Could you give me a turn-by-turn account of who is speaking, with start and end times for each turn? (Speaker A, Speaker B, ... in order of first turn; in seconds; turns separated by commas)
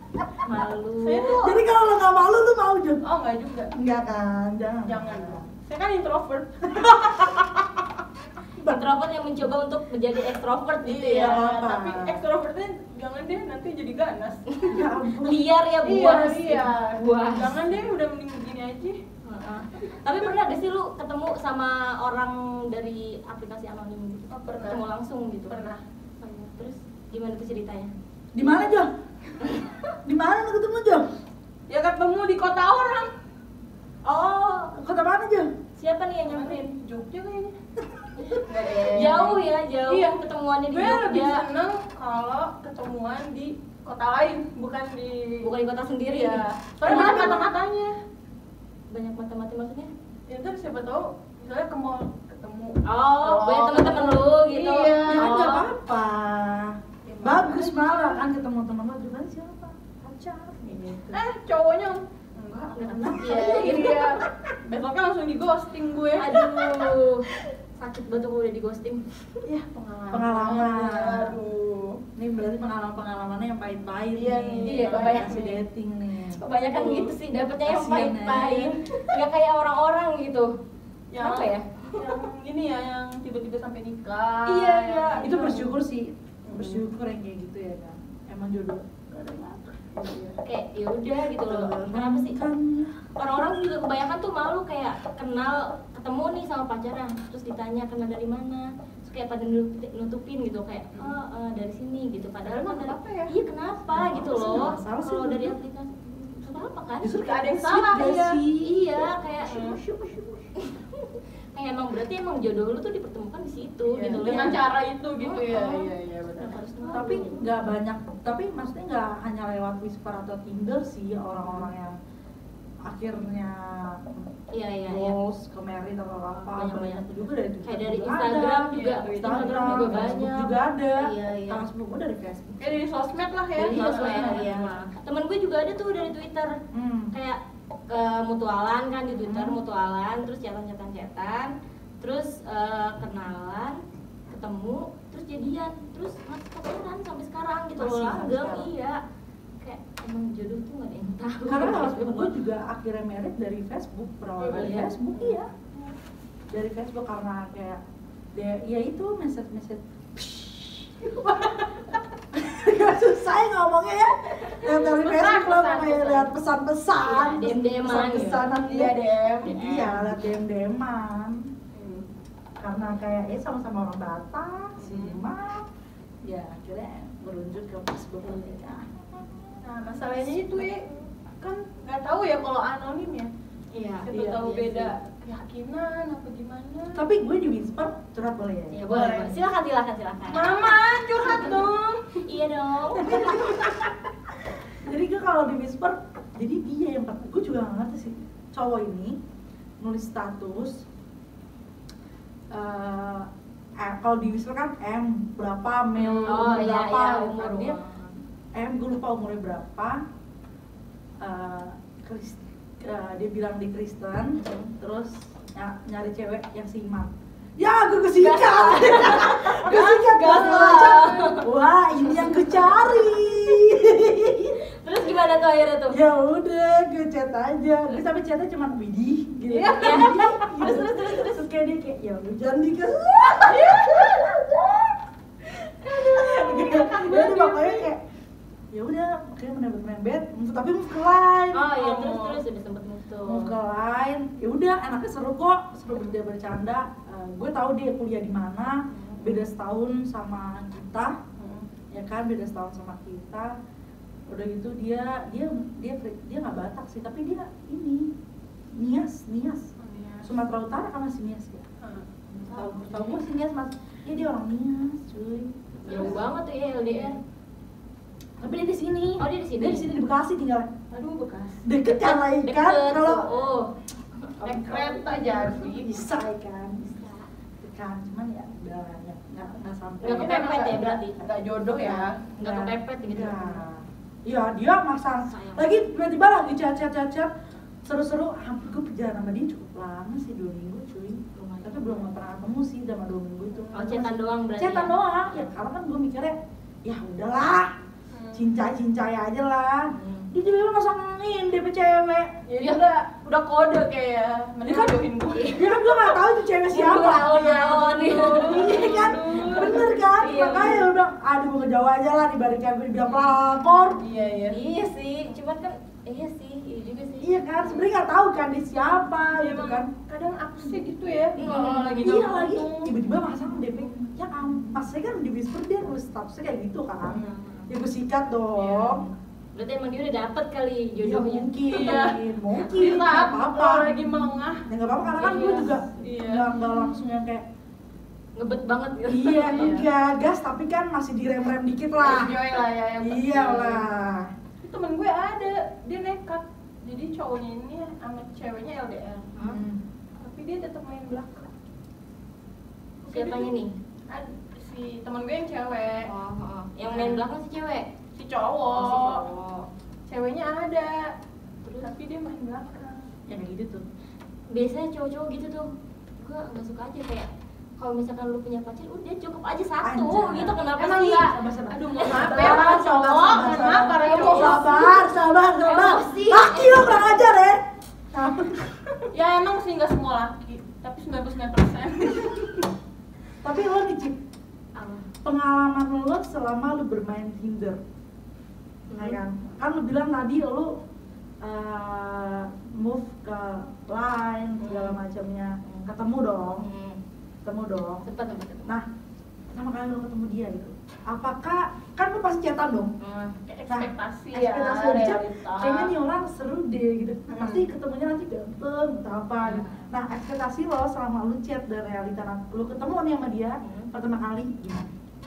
Speaker A: 0.4-1.4, Speaker B: 1.0-1.6, Speaker C: 1.4-3.0, Speaker B: 3.0-3.7, Speaker C: 3.7-5.4, Speaker B: 4.8-7.2, Speaker C: 6.7-7.4, Speaker A: 8.6-11.5, Speaker B: 10.8-14.8, Speaker C: 11.1-12.2, Speaker A: 14.5-17.5, Speaker C: 14.7-15.4, Speaker B: 15.8-19.0, Speaker A: 19.2-25.6, Speaker B: 24.3-24.8, Speaker B: 25.5-25.8, Speaker A: 26.2-27.9, Speaker C: 28.3-28.9, Speaker A: 29.4-29.7, Speaker C: 30.0-31.1, Speaker B: 31.7-33.1, Speaker A: 34.0-34.8, Speaker C: 34.8-35.5, Speaker A: 35.8-36.7, Speaker B: 36.2-37.5, Speaker A: 38.2-41.4, Speaker B: 38.3-45.5, Speaker A: 45.4-47.5, Speaker B: 46.1-48.0, Speaker A: 48.9-49.9, Speaker B: 50.3-55.3, Speaker A: 52.8-55.7, Speaker C: 55.1-61.2, Speaker B: 57.0-58.2, Speaker B: 61.1-66.8, Speaker A: 62.8-64.1, Speaker C: 63.3-64.3, Speaker A: 66.2-69.0, Speaker B: 69.4-72.0, Speaker C: 70.1-71.4, Speaker C: 72.2-78.8, Speaker B: 74.1-75.6, Speaker A: 74.6-75.5, Speaker A: 76.3-80.5, Speaker B: 81.1-85.7, Speaker A: 81.2-82.1, Speaker A: 84.5-85.6, Speaker C: 85.2-89.9, Speaker B: 86.5-86.8, Speaker B: 89.9-90.4, Speaker A: 90.4-92.4, Speaker C: 91.3-93.4, Speaker A: 93.2-107.1, Speaker B: 102.4-103.3, Speaker C: 103.9-105.6, Speaker C: 107.0-109.1, Speaker B: 107.2-108.4, Speaker A: 108.6-114.6, Speaker B: 109.4-109.8, Speaker B: 113.9-117.4, Speaker A: 115.2-117.4, Speaker C: 116.9-122.0, Speaker C: 122.8-124.1, Speaker A: 124.5-125.1, Speaker C: 124.8-132.8, Speaker A: 126.3-127.0, Speaker A: 127.6-131.6, Speaker B: 128.7-130.3, Speaker B: 132.6-134.7, Speaker A: 133.6-136.6, Speaker C: 133.7-134.6, Speaker C: 136.7-137.1, Speaker A: 137.1-137.4, Speaker A: 137.9-149.0, Speaker C: 139.2-139.6, Speaker C: 147.8-148.7, Speaker A: 149.6-152.3, Speaker C: 151.5-155.5, Speaker B: 154.4-154.9, Speaker A: 154.5-155.3, Speaker C: 156.5-157.8, Speaker C: 158.3-160.9, Speaker B: 161.2-161.6, Speaker C: 162.3-171.5, Speaker B: 164.5-166.3, Speaker A: 167.0-168.5, Speaker B: 168.6-169.5, Speaker A: 169.4-170.1, Speaker B: 171.7-172.1, Speaker C: 172.6-175.7, Speaker B: 174.8-175.2, Speaker C: 176.2-179.6, Speaker B: 179.6-180.9, Speaker C: 180.4-180.6, Speaker B: 181.4-183.3, Speaker A: 183.7-184.9, Speaker B: 184.0-187.0, Speaker C: 186.9-189.3, Speaker A: 188.7-191.7, Speaker B: 190.3-192.2, Speaker A: 192.2-193.8, Speaker C: 192.9-193.9, Speaker C: 194.8-199.2, Speaker C: 199.8-200.8, Speaker C: 202.5-207.8, Speaker B: 206.0-206.5, Speaker A: 206.2-208.1, Speaker C: 208.5-210.0, Speaker C: 211.2-224.6, Speaker A: 214.3-214.7, Speaker A: 218.2-221.4, Speaker B: 220.2-221.3, Speaker A: 224.8-226.0, Speaker C: 225.9-234.9, Speaker B: 229.5-230.2, Speaker A: 229.8-231.4, Speaker B: 233.4-234.4, Speaker B: 235.7-237.8, Speaker C: 235.8-238.0, Speaker C: 238.7-242.1, Speaker A: 241.5-243.5, Speaker B: 241.8-242.4, Speaker C: 243.2-251.2, Speaker A: 248.9-249.2, Speaker B: 251.4-251.7, Speaker C: 251.9-253.5, Speaker C: 254.3-258.1, Speaker C: 258.7-259.7, Speaker B: 259.8-260.3, Speaker C: 260.2-261.6, Speaker B: 261.8-263.1, Speaker C: 262.3-266.2, Speaker A: 265.8-267.2, Speaker B: 265.9-266.2, Speaker C: 268.4-270.7, Speaker A: 269.2-269.9, Speaker B: 270.9-271.6, Speaker C: 271.6-273.3, Speaker A: 272.0-274.6, Speaker C: 274.4-276.9, Speaker B: 274.5-275.9, Speaker A: 276.8-277.3, Speaker C: 277.6-280.4, Speaker B: 280.0-282.2, Speaker A: 280.0-281.1, Speaker C: 281.8-287.3, Speaker A: 282.3-283.6, Speaker A: 285.2-285.8, Speaker C: 287.8-297.7, Speaker A: 291.3-292.1, Speaker A: 293.7-294.9, Speaker B: 298.1-298.4, Speaker C: 298.3-302.3, Speaker A: 299.9-300.3, Speaker B: 302.5-305.7, Speaker A: 302.6-302.8, Speaker C: 304.6-314.0, Speaker A: 305.3-305.9, Speaker A: 306.7-310.9, Speaker B: 307.1-310.8, Speaker B: 314.0-314.6, Speaker A: 314.5-317.8, Speaker C: 317.2-319.9, Speaker B: 319.4-322.9, Speaker A: 321.4-322.1, Speaker C: 321.4-329.0, Speaker A: 327.2-327.7, Speaker B: 328.6-329.0, Speaker A: 329.5-332.0, Speaker C: 331.0-334.1, Speaker B: 331.7-334.6, Speaker C: 334.6-337.4, Speaker A: 335.1-336.0, Speaker B: 335.3-336.5, Speaker A: 338.4-339.8, Speaker C: 339.1-344.3, Speaker B: 339.5-339.9, Speaker B: 342.0-343.9, Speaker B: 344.6-349.3, Speaker A: 349.4-349.6, Speaker C: 349.4-349.8, Speaker B: 350.2-351.5, Speaker B: 353.0-353.5, Speaker A: 353.1-353.7, Speaker B: 354.1-356.1, Speaker A: 356.1-357.9, Speaker B: 356.8-357.2, Speaker B: 358.1-359.2, Speaker A: 358.7-359.7, Speaker B: 360.1-361.1, Speaker A: 361.6-361.9, Speaker B: 361.8-363.1, Speaker C: 363.3-363.8, Speaker A: 364.5-367.3, Speaker A: 367.8-371.3, Speaker C: 369.8-370.6, Speaker B: 370.7-375.0, Speaker C: 371.2-377.6, Speaker A: 372.0-375.1, Speaker A: 375.6-377.2, Speaker C: 378.1-378.8, Speaker B: 379.1-382.7, Speaker C: 383.4-384.2, Speaker A: 384.7-385.1, Speaker C: 385.2-387.8, Speaker A: 388.9-389.2, Speaker C: 388.9-390.8, Speaker C: 391.4-396.6, Speaker A: 394.6-395.0, Speaker A: 396.6-397.0, Speaker C: 397.4-398.1, Speaker A: 398.1-398.8, Speaker C: 399.5-402.9, Speaker A: 403.0-403.4, Speaker B: 403.5-405.9, Speaker C: 403.7-414.9, Speaker B: 407.3-407.6, Speaker A: 409.4-409.9, Speaker A: 413.6-413.9